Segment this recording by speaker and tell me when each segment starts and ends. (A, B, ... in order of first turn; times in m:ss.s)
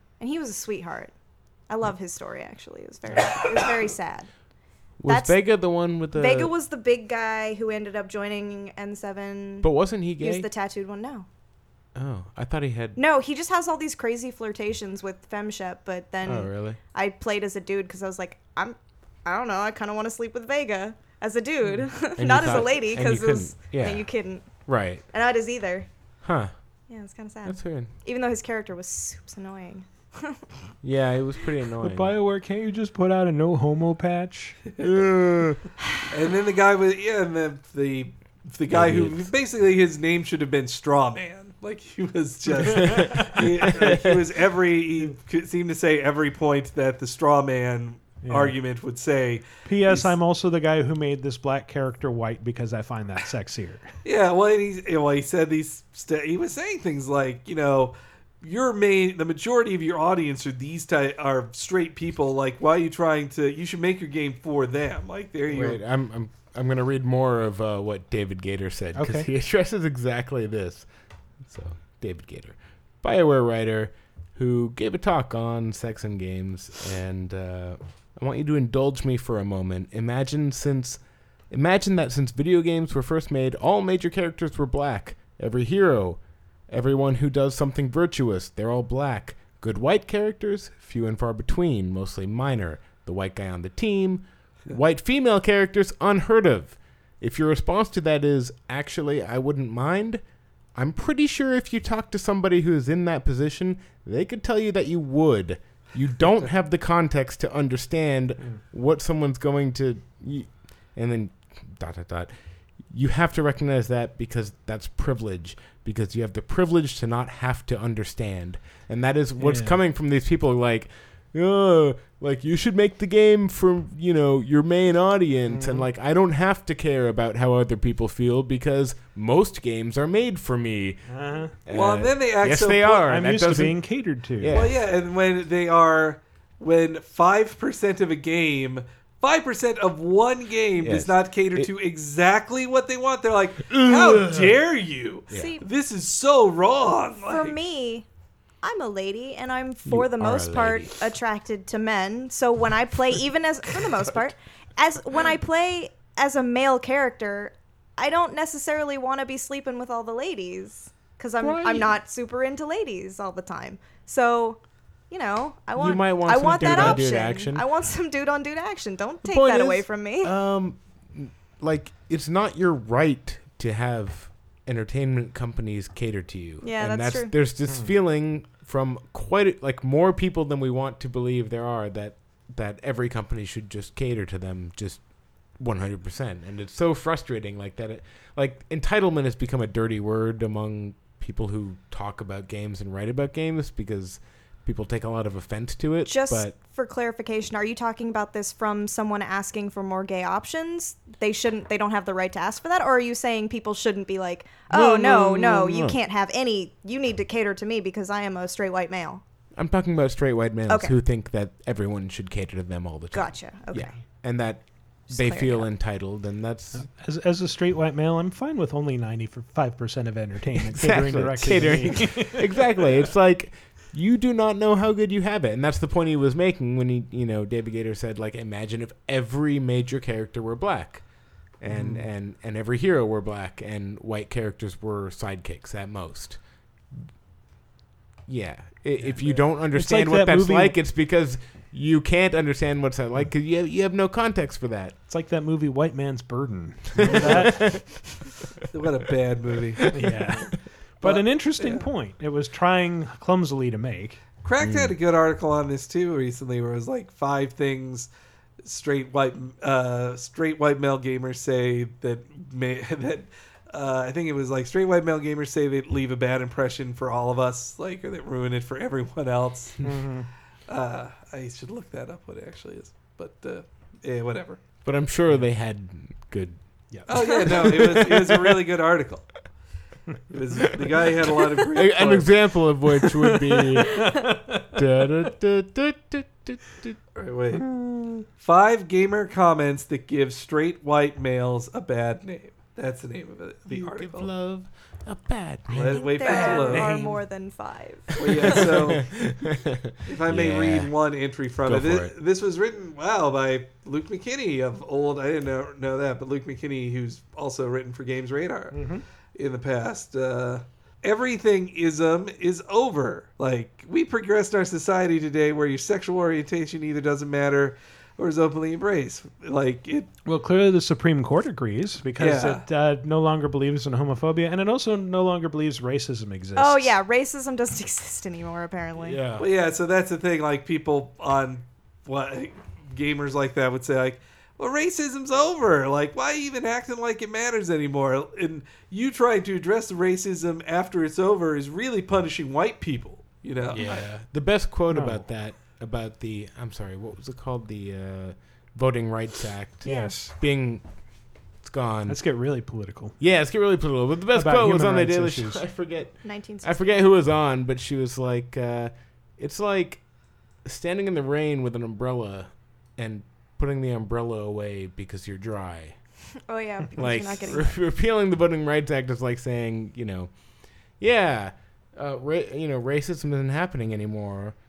0:00.2-0:01.1 A
0:01.7-0:04.3 A
0:03.1-0:03.5 B
0:05.0-0:06.5 B
0:05.1-0:05.4 A
0:06.1-0:11.3 A
0:09.6-0:10.5 B
0:12.0-0:13.0 B
0:13.0-0:24.5 A
0:16.2-0:16.8 B
0:22.2-0:24.1 B
0:24.7-0:25.0 B
0:25.1-0:25.9 A
0:26.2-0:26.5 B
0:26.9-0:30.4 A
0:27.4-0:27.9 B
0:30.8-0:32.1 B
0:31.8-0:34.6 C
0:34.8-0:35.6 B
0:36.1-0:50.1 D
0:38.7-0:39.3 B
0:42.6-0:44.2 B
0:42.7-0:43.2 C
0:48.2-0:48.6 C
0:49.6-0:53.9 C
0:54.0-1:05.8 D
1:05.5-1:10.9 B
1:09.0-1:09.3 C
1:11.4-1:40.2 B
1:40.8-1:52.3 B
1:52.9-2:11.1 B
1:59.4-1:59.8 C
2:05.5-2:05.9 C
2:11.1-2:11.5 C
2:11.6-2:13.9 B
2:11.7-2:13.0 D
2:13.0-2:14.6 C
2:14.4-2:14.8 B
2:14.5-2:27.6 D
2:20.8-2:21.7 B
2:23.7-2:24.5 B
2:25.3-2:25.6 A
2:27.3-2:28.1 A
2:28.6-2:44.6 A
2:29.9-2:31.0 B
2:41.4-2:41.9 B
2:45.1-2:50.3 A
2:45.8-2:47.7 B
2:46.5-2:47.1 C
2:49.2-3:05.0 B
2:56.6-2:57.3 A
2:57.7-2:57.9 C
3:05.6-3:16.6 B
3:16.1-3:29.2 A
3:24.7-3:26.0 B
3:29.6-3:36.8 B
3:30.7-3:30.9 A
3:33.1-3:34.0 A
3:35.1-3:35.7 A
3:36.7-3:43.1 C
3:40.6-3:51.0 B
3:51.6-3:56.4 B
3:51.7-3:52.1 C
3:58.3-4:05.0 B
3:59.0-4:00.8 C
4:05.1-4:07.8 C
4:07.0-4:07.8 B
4:08.7-4:09.9 D
4:09.9-4:14.2 C
4:10.0-4:10.3 B
4:11.0-4:11.8 D
4:14.4-4:18.1 D
4:14.6-4:14.9 B
4:18.6-4:29.8 D
4:29.8-4:30.3 C
4:30.7-4:34.6 D
4:34.8-4:36.6 B
4:36.9-4:38.5 C
4:37.1-4:39.3 D
4:40.3-4:42.3 D
4:41.7-4:47.0 B
4:43.1-4:44.6 C
4:47.2-4:47.6 D
4:47.5-4:48.3 C
4:48.4-4:54.3 D
4:53.7-4:56.6 B
4:55.7-4:56.9 D
4:55.9-4:58.2 A
4:56.3-4:57.2 C
4:58.2-5:00.9 B
4:58.2-4:59.1 D
5:00.1-5:20.1 D
5:01.6-5:02.1 B
5:08.7-5:09.0 C
5:20.2-5:26.9 C
5:22.2-5:22.6 D
5:26.6-5:29.2 A
5:29.0-5:29.5 B
5:29.4-5:44.1 D
5:43.7-5:50.8 B
5:44.9-5:45.3 C
5:49.8-5:50.3 C
5:49.9-5:50.1 A
5:51.6-5:52.2 B
5:52.1-5:53.2 C
5:53.2-6:00.0 B
5:54.3-5:55.6 C
5:56.2-5:56.9 A
6:00.6-6:06.0 B
6:06.5-6:07.8 A
6:07.0-6:10.3 B
6:11.0-6:14.6 B